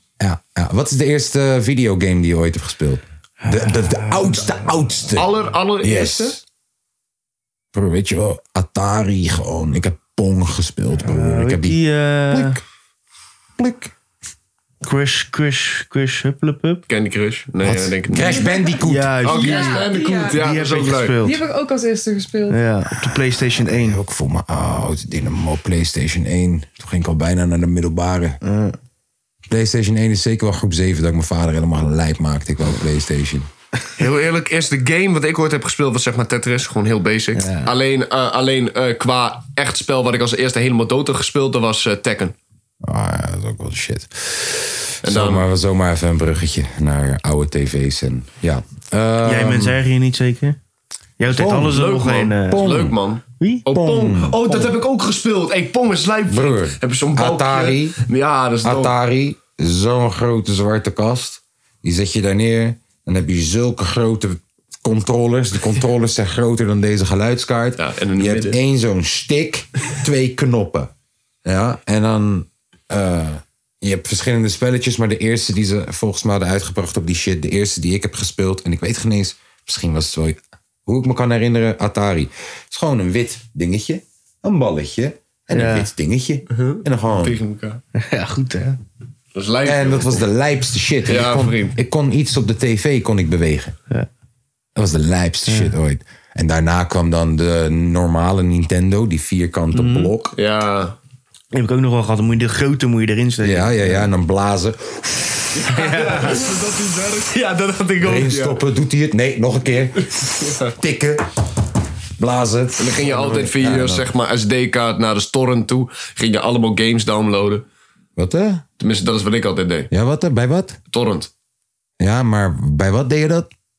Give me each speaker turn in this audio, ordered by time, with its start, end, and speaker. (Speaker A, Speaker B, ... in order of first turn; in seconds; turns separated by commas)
Speaker A: 0.2-5.3, Speaker B: 3.4-4.5, Speaker C: 5.1-6.4, Speaker A: 5.8-6.4, Speaker A: 7.7-12.6, Speaker B: 11.0-12.6, Speaker A: 13.6-13.9, Speaker B: 14.8-16.8, Speaker C: 16.9-18.5, Speaker A: 17.6-19.2, Speaker B: 18.8-21.4, Speaker C: 19.2-21.2, Speaker D: 19.3-20.3, Speaker D: 21.2-22.6, Speaker B: 22.5-24.0, Speaker A: 23.0-28.4, Speaker B: 28.4-28.8, Speaker A: 29.5-33.5, Speaker C: 34.0-42.3, Speaker B: 37.3-37.7, Speaker A: 42.8-49.8, Speaker C: 45.0-45.4, Speaker B: 49.2-50.6, Speaker B: 51.2-52.6, Speaker A: 51.3-51.8, Speaker C: 51.7-58.9, Speaker A: 52.5-53.0, Speaker A: 53.7-54.7, Speaker A: 56.3-58.0, Speaker A: 58.6-70.9, Speaker C: 67.8-68.6, Speaker A: 71.4-87.4, Speaker B: 85.5-85.9, Speaker C: 86.5-87.8, Speaker B: 88.0-88.8, Speaker C: 89.3-90.2, Speaker A: 89.6-93.7, Speaker C: 91.0-91.7, Speaker A: 94.8-100.3, Speaker B: 99.7-100.1, Speaker C: 100.3-101.0, Speaker B: 101.5-104.1, Speaker A: 103.4-105.6, Speaker C: 105.6-108.6, Speaker B: 105.7-106.4, Speaker A: 108.0-111.2, Speaker C: 110.4-110.7, Speaker A: 112.2-114.1, Speaker C: 112.8-117.6, Speaker A: 118.2-118.6, Speaker C: 118.8-119.9, Speaker A: 119.9-120.8, Speaker C: 120.9-121.3, Speaker A: 122.0-123.5